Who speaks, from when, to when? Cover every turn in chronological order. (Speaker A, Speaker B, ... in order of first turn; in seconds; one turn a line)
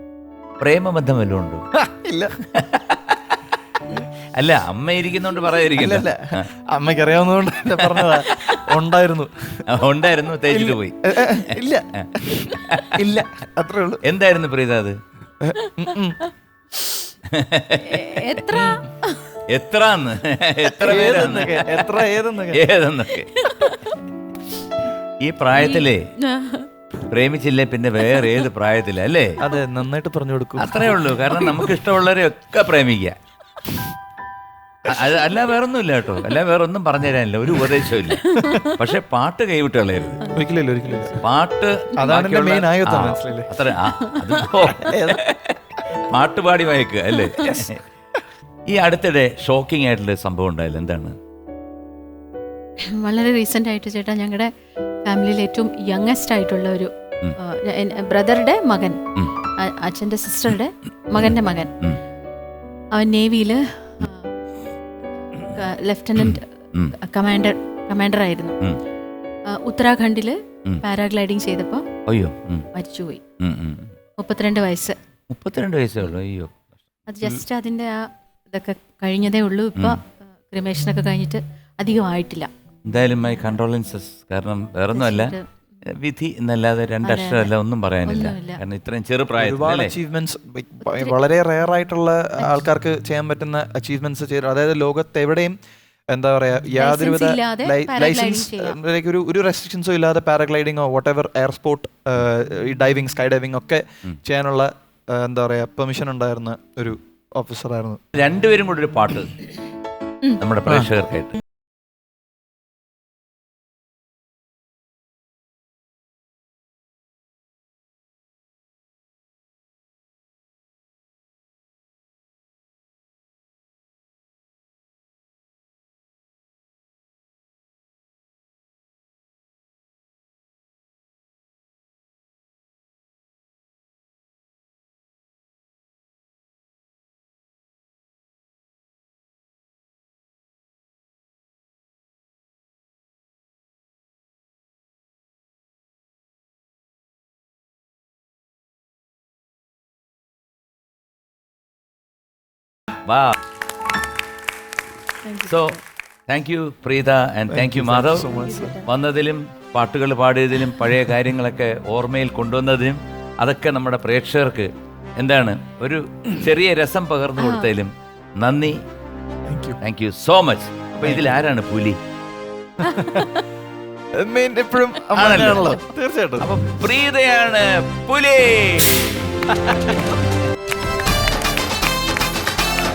Speaker A: 0.6-1.6
Speaker B: 1.8-2.4
Speaker A: 2.5-6.5
Speaker B: 5.7-9.6
Speaker A: 7.8-8.7
Speaker A: 9.7-13.0
Speaker B: 10.5-14.0
Speaker A: 14.0-15.0
Speaker B: 15.4-16.2
Speaker C: 15.6-17.0
Speaker A: 17.3-18.2
Speaker C: 17.8-19.3
Speaker B: 18.5-18.8
Speaker A: 19.5-21.9
Speaker B: 20.8-22.6
Speaker A: 22.5-23.3
Speaker C: 23.3-23.9
Speaker A: 25.2-26.0
Speaker C: 25.6-26.7
Speaker A: 27.1-29.4
Speaker C: 28.0-28.4
Speaker B: 29.4-31.0
Speaker A: 30.6-33.1
Speaker C: 31.4-31.6
Speaker A: 34.9-40.3
Speaker C: 38.2-38.8
Speaker C: 40.2-41.2
Speaker B: 40.3-41.2
Speaker A: 41.1-47.8
Speaker B: 42.0-43.5
Speaker C: 44.0-44.5
Speaker B: 44.7-45.2
Speaker C: 47.1-47.6
Speaker A: 48.7-51.1
Speaker C: 53.0-54.5
Speaker C: 55.0-59.0
Speaker C: 59.6-61.8
Speaker C: 62.9-64.3
Speaker C: 65.3-68.6
Speaker A: 66.2-66.9
Speaker C: 69.5-71.8
Speaker A: 72.0-72.7
Speaker C: 72.7-73.2
Speaker A: 73.4-73.9
Speaker C: 74.2-75.0
Speaker A: 75.3-76.7
Speaker C: 77.1-82.5
Speaker A: 82.8-89.9
Speaker C: 84.9-85.5
Speaker C: 87.0-87.5
Speaker C: 88.0-88.6
Speaker B: 89.4-95.6
Speaker C: 90.8-91.2
Speaker B: 96.1-108.0
Speaker C: 96.8-98.8
Speaker A: 108.1-109.3
Speaker A: 110.4-111.4
Speaker A: 153.1-153.3
Speaker C: 155.2-155.8
Speaker A: 155.5-155.8
Speaker A: 156.3-158.3
Speaker B: 157.5-158.8
Speaker C: 158.3-158.9
Speaker A: 158.8-168.8
Speaker C: 167.4-167.7
Speaker B: 169.5-169.8
Speaker A: 169.8-172.0
Speaker B: 171.0-171.3
Speaker B: 172.8-173.3
Speaker C: 172.8-173.4
Speaker B: 174.1-176.5
Speaker A: 175.1-175.8
Speaker A: 176.4-179.2
Speaker B: 179.5-180.0